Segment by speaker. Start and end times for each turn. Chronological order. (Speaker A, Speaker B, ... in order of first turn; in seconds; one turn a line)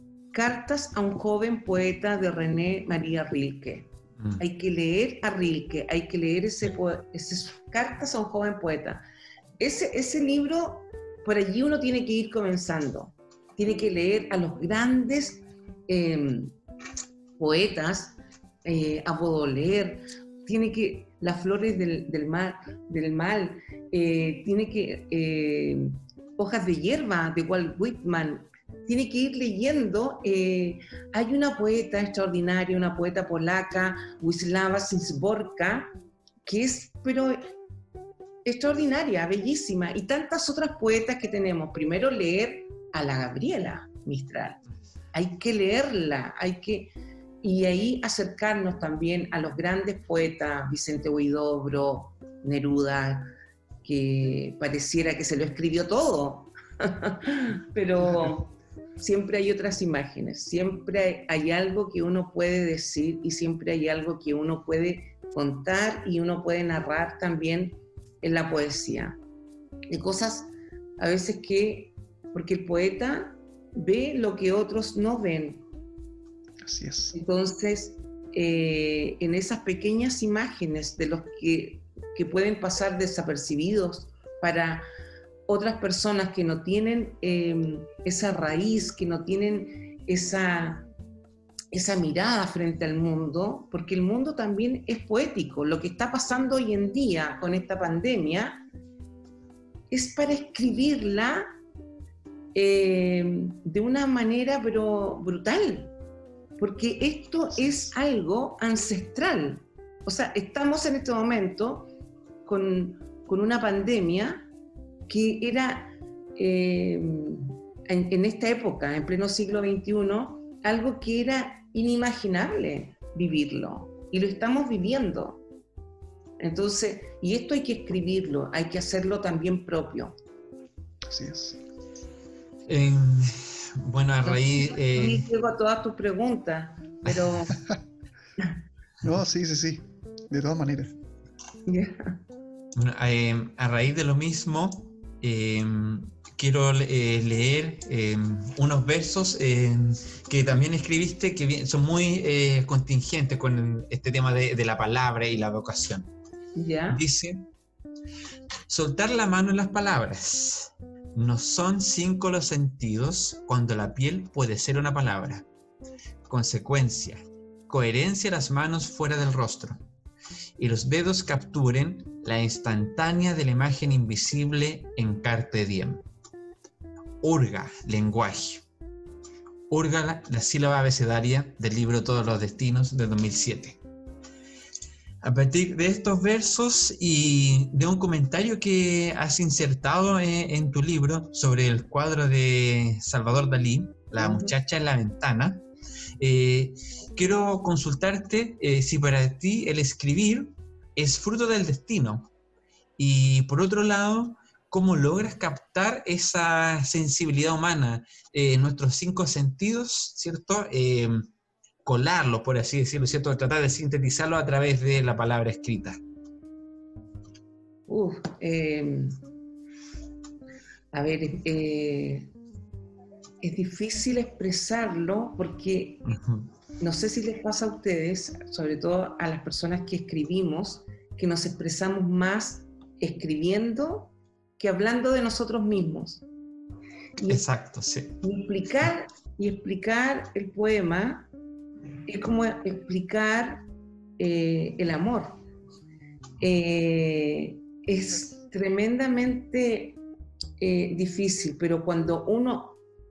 Speaker A: 0.3-9.1
Speaker A: 9.6-16.5
Speaker A: 17.4-35.9
Speaker A: 36.5-37.5
Speaker A: 38.5-44.6
Speaker A: 45.1-53.3
Speaker A: 53.8-69.2
Speaker A: 69.9-75.6
Speaker B: 76.6-77.2
Speaker A: 77.1-84.9
Speaker A: 85.5-90.9
Speaker A: 91.7-98.6
Speaker A: 99.9-101.5
Speaker A: 102.5-105.9
Speaker A: 106.6-111.9
Speaker A: 112.5-114.5
Speaker A: 115.1-125.4
Speaker A: 126.4-130.2
Speaker B: 131.1-131.6
Speaker C: 132.7-135.3
Speaker A: 134.2-137.6
Speaker B: 139.0-140.9
Speaker A: 141.7-142.2
Speaker C: 142.8-156.1
Speaker A: 156.6-157.0
Speaker C: 156.9-157.5
Speaker C: 158.7-165.4
Speaker C: 166.3-169.8
Speaker C: 170.6-176.1
Speaker C: 177.2-178.6
Speaker C: 179.7-183.8
Speaker C: 185.2-195.7
Speaker A: 194.2-194.5
Speaker C: 196.2-202.3
Speaker C: 203.0-211.2
Speaker C: 211.8-216.0
Speaker A: 217.9-219.2
Speaker A: 220.9-222.3
Speaker A: 223.4-226.0
Speaker C: 226.1-226.5
Speaker A: 226.8-236.2
Speaker C: 237.2-238.2
Speaker A: 238.2-241.3
Speaker A: 242.1-243.7
Speaker A: 244.2-245.4
Speaker A: 246.4-250.0
Speaker A: 250.6-252.8